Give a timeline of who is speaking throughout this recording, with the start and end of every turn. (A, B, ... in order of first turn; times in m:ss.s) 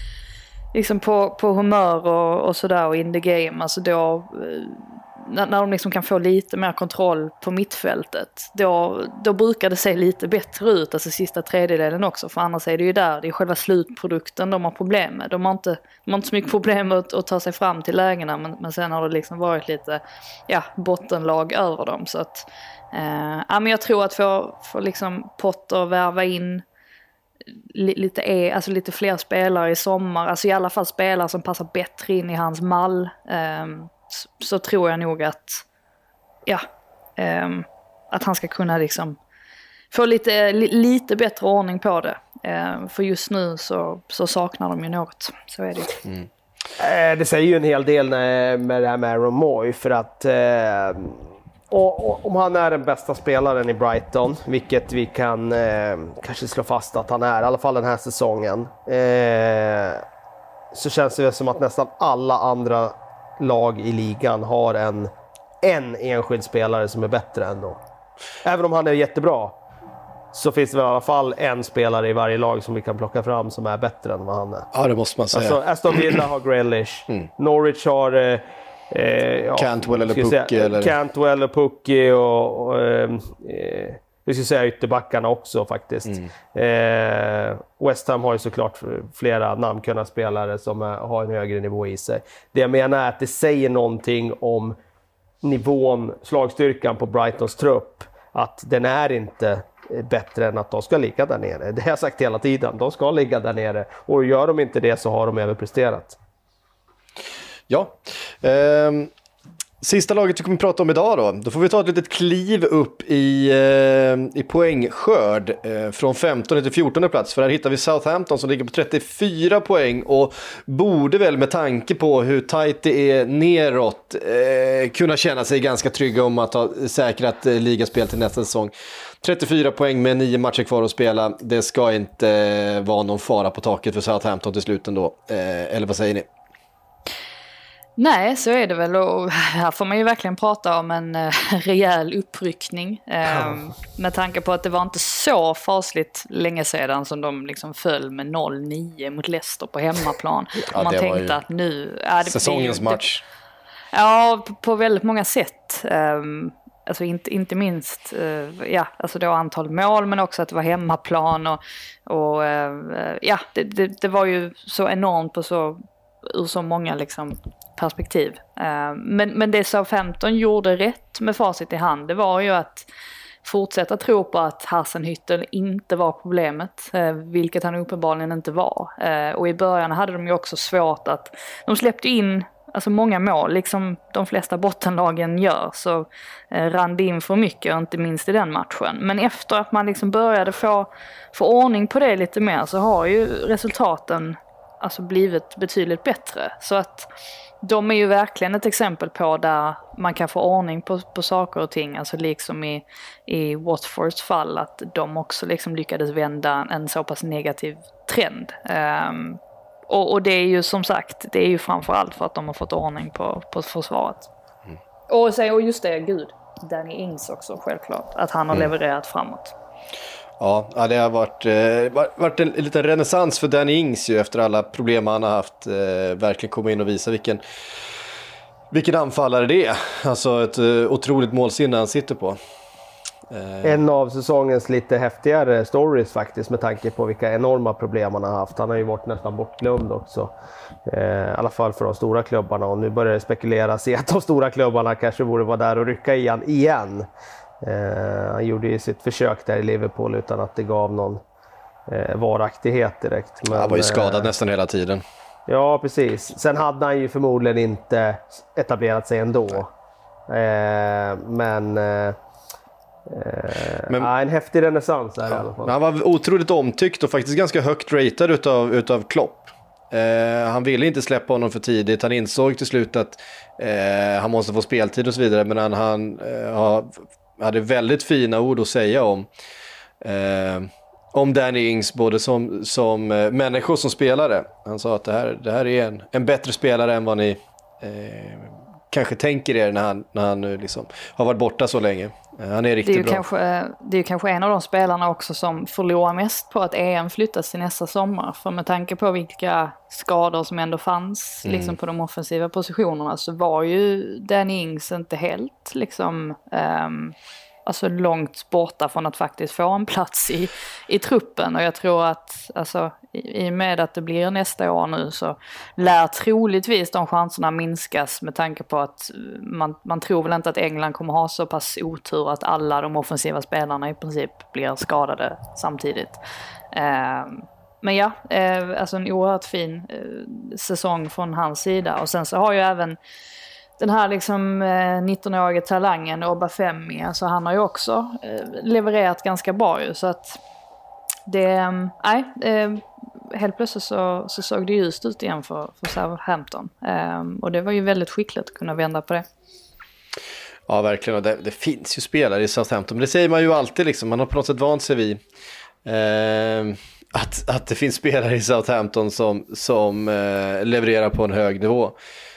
0:00.7-0:26.6 A
0:27.7-0:35.6 A
0:37.2-0:39.2 A
0:39.9-0:46.0 A
0:46.8-1:00.0 B
1:00.7-1:05.1 B
1:05.6-1:07.8 B
1:08.4-1:09.6 B
1:10.3-1:14.7 B
1:14.7-1:16.2 C
1:15.3-1:34.7 B
1:19.6-1:20.9 C
1:35.4-1:46.2 B
1:47.7-1:49.1 C
1:49.8-2:16.3 C
2:18.0-2:33.0 A
2:30.7-2:31.4 C
2:32.2-2:33.2 C
2:33.9-2:52.9 A
2:53.4-3:17.1 A
3:17.6-3:34.3 A
3:35.1-3:39.5 A
3:40.4-3:47.4 C
3:48.7-3:52.4 C
3:53.3-3:53.8 C
3:53.6-4:00.3 B
4:00.8-4:07.1 B
4:07.6-4:11.2 B
4:11.9-4:14.3 B
4:13.5-4:15.0 C
4:15.5-4:19.7 B
4:20.3-4:22.2 B
4:23.1-4:25.7 B
4:25.4-4:39.3 C
4:40.0-4:53.2 C
4:52.8-5:26.2 A
5:01.4-5:01.8 C
5:26.7-5:33.0 A
5:33.8-5:40.4 A
5:41.3-5:49.2 A
5:50.7-5:55.2 C
5:55.8-6:02.0 C